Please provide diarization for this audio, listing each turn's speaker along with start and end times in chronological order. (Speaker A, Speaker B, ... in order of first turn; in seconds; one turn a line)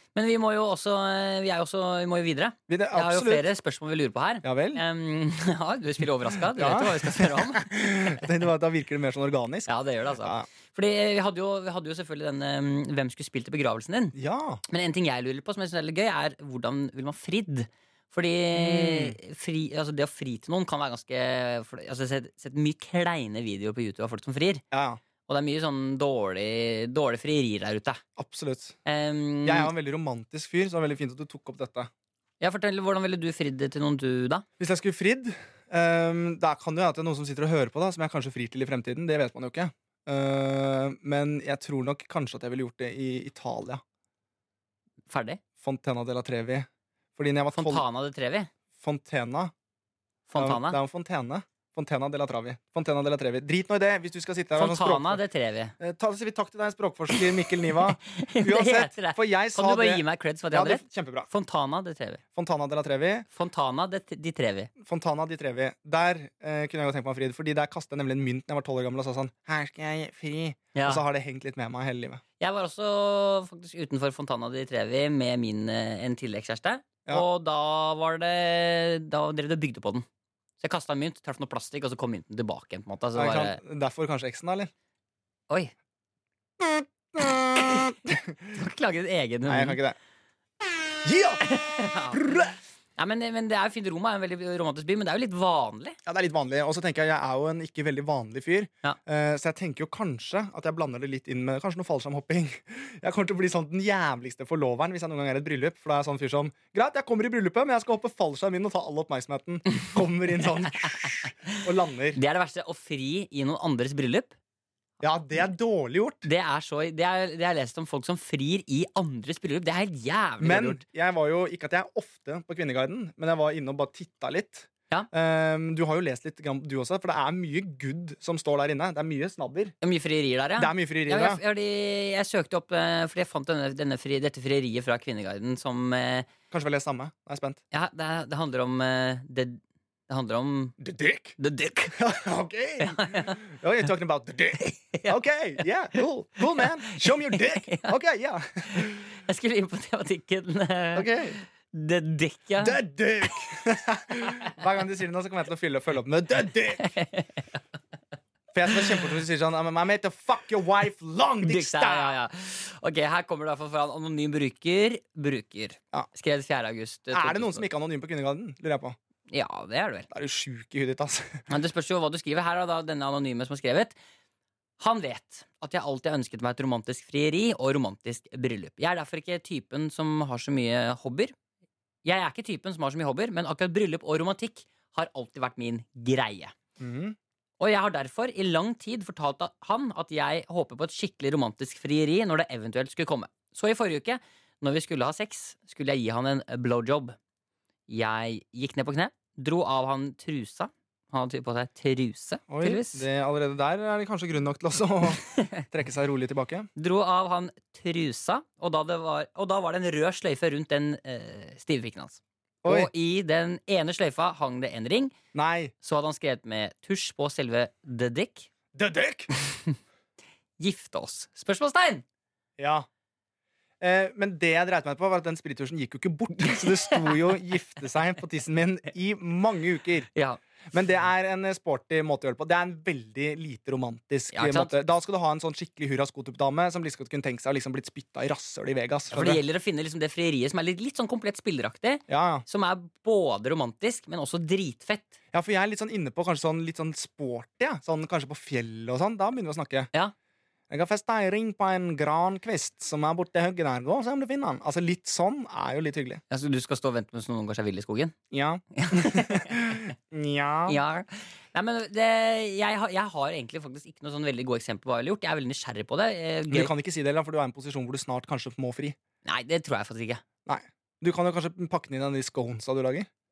Speaker A: 0.1-8.2
Speaker B: 2.7-3.5
Speaker B: 4.4-4.8
Speaker B: 6.5-9.7
Speaker A: 9.7-14.1
Speaker B: 10.2-10.5
Speaker B: 14.1-14.6
Speaker A: 14.7-24.6
Speaker B: 18.6-19.1
Speaker B: 24.7-25.0
Speaker A: 25.3-28.0
Speaker B: 28.2-28.8
Speaker A: 28.8-29.7
Speaker B: 29.4-31.9
Speaker A: 32.4-34.4
Speaker B: 34.6-43.8
Speaker A: 45.1-45.4
Speaker B: 45.6-47.8
Speaker A: 47.5-48.5
Speaker B: 48.8-49.5
Speaker A: 50.3-50.8
Speaker B: 50.4-55.2
Speaker A: 54.5-55.7
Speaker B: 55.8-61.3
Speaker A: 57.1-62.2
Speaker B: 62.3-63.2
Speaker A: 63.3-64.7
Speaker B: 64.8-72.2
Speaker A: 70.7-71.0
Speaker A: 72.4-80.0
Speaker A: 80.6-83.6
Speaker B: 83.2-84.7
Speaker B: 86.6-88.5
Speaker A: 87.6-87.9
Speaker A: 88.5-89.8
Speaker B: 89.5-90.0
Speaker B: 91.0-91.4
Speaker A: 91.4-92.4
Speaker B: 92.1-92.5
Speaker A: 93.0-96.0
Speaker B: 96.0-112.2
Speaker A: 110.6-111.6
Speaker A: 112.1-114.3
Speaker B: 115.0-116.2
Speaker A: 116.2-120.8
Speaker B: 120.4-129.7
Speaker A: 129.8-136.3
Speaker B: 130.6-131.4
Speaker B: 136.5-137.6
Speaker A: 137.7-140.8
Speaker B: 140.8-141.3
Speaker A: 141.4-142.0
Speaker B: 141.9-149.0
Speaker A: 142.8-143.4
Speaker A: 144.6-145.2
Speaker A: 146.5-147.9
Speaker A: 148.7-152.8
Speaker B: 150.9-151.4
Speaker B: 152.6-156.9
Speaker A: 156.8-157.6
Speaker B: 158.5-162.2
Speaker A: 158.8-159.0
Speaker A: 161.4-167.7
Speaker B: 167.1-168.9
Speaker A: 169.3-170.1
Speaker B: 170.1-171.4
Speaker A: 171.5-173.9
Speaker A: 174.8-181.3
Speaker A: 182.0-186.5
Speaker B: 186.8-187.2
Speaker A: 187.6-197.2
Speaker A: 197.9-203.0
Speaker B: 202.5-206.7
Speaker A: 205.2-205.6
Speaker A: 206.8-215.1
Speaker B: 212.6-212.9
Speaker B: 215.3-215.7
Speaker A: 215.8-218.5
Speaker B: 218.7-219.3
Speaker A: 219.3-219.8
Speaker A: 220.6-222.0
Speaker B: 222.6-222.8
Speaker B: 223.8-230.1
Speaker A: 226.7-227.2
Speaker A: 230.1-230.4
Speaker B: 230.7-239.4
Speaker A: 234.3-234.7
Speaker A: 239.1-245.1
Speaker B: 242.1-242.4
Speaker B: 245.3-249.9
Speaker B: 250.7-256.2
Speaker A: 256.3-258.1
Speaker B: 258.3-260.8
Speaker A: 258.7-259.9
Speaker A: 260.7-266.7
Speaker B: 266.5-268.9
Speaker A: 269.2-270.2
Speaker B: 270.4-273.1